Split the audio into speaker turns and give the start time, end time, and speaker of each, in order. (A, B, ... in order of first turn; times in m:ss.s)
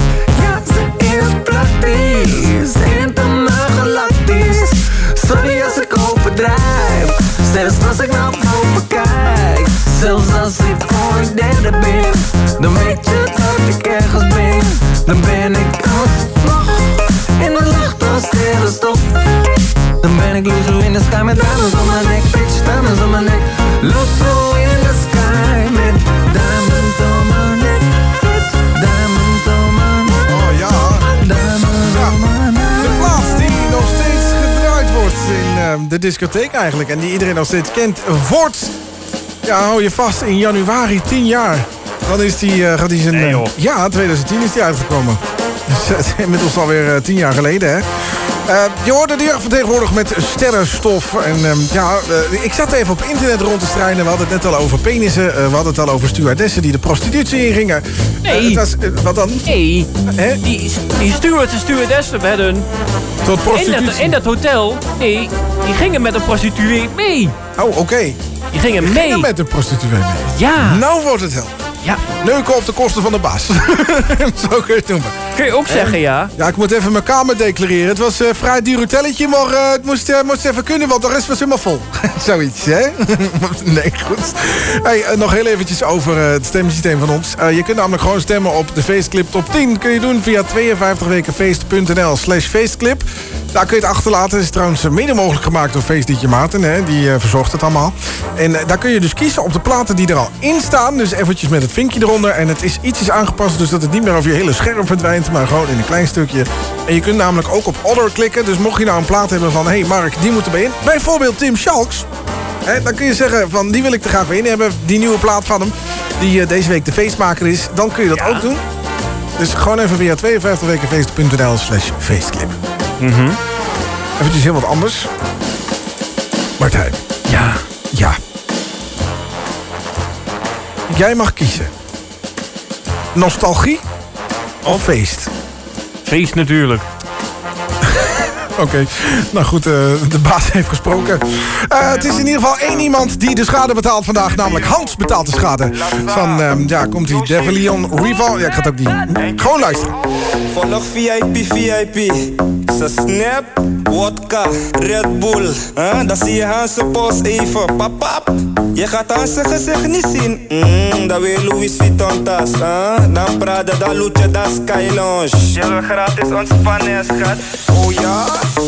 0:00.3-0:16.8 A
0:17.4-0:19.0 A
0:20.0-0:30.2 A
0:30.3-0:31.1 B
0:31.2-0:32.8 A
0:31.8-0:32.2 B
0:32.7-0:38.7 B
0:39.4-0:47.8 B
0:43.1-0:43.5 C
0:48.4-0:59.4 B
0:58.2-0:58.6 C
0:59.4-0:59.9 C
1:00.1-1:00.4 B
1:00.4-1:02.7 C
1:03.2-1:04.2 B
1:03.5-1:07.3 C
1:07.6-1:08.2 B
1:08.5-1:09.3 C
1:08.8-1:11.5 B
1:10.4-1:10.8 C
1:12.2-1:52.1 B
1:15.4-1:16.3 C
1:52.6-1:58.6 B
1:58.1-1:58.5 C
1:59.4-2:02.6 B
2:03.0-2:03.4 C
2:04.2-2:05.1 B
2:06.6-2:07.0 B
2:07.3-2:07.6 C
2:07.9-2:08.2 B
2:10.9-2:11.7 B
2:13.1-2:13.8 B
2:14.6-2:15.3 B
2:16.0-2:16.8 C
2:17.9-2:29.9 B
2:29.2-2:29.9 D
2:30.5-2:48.4 D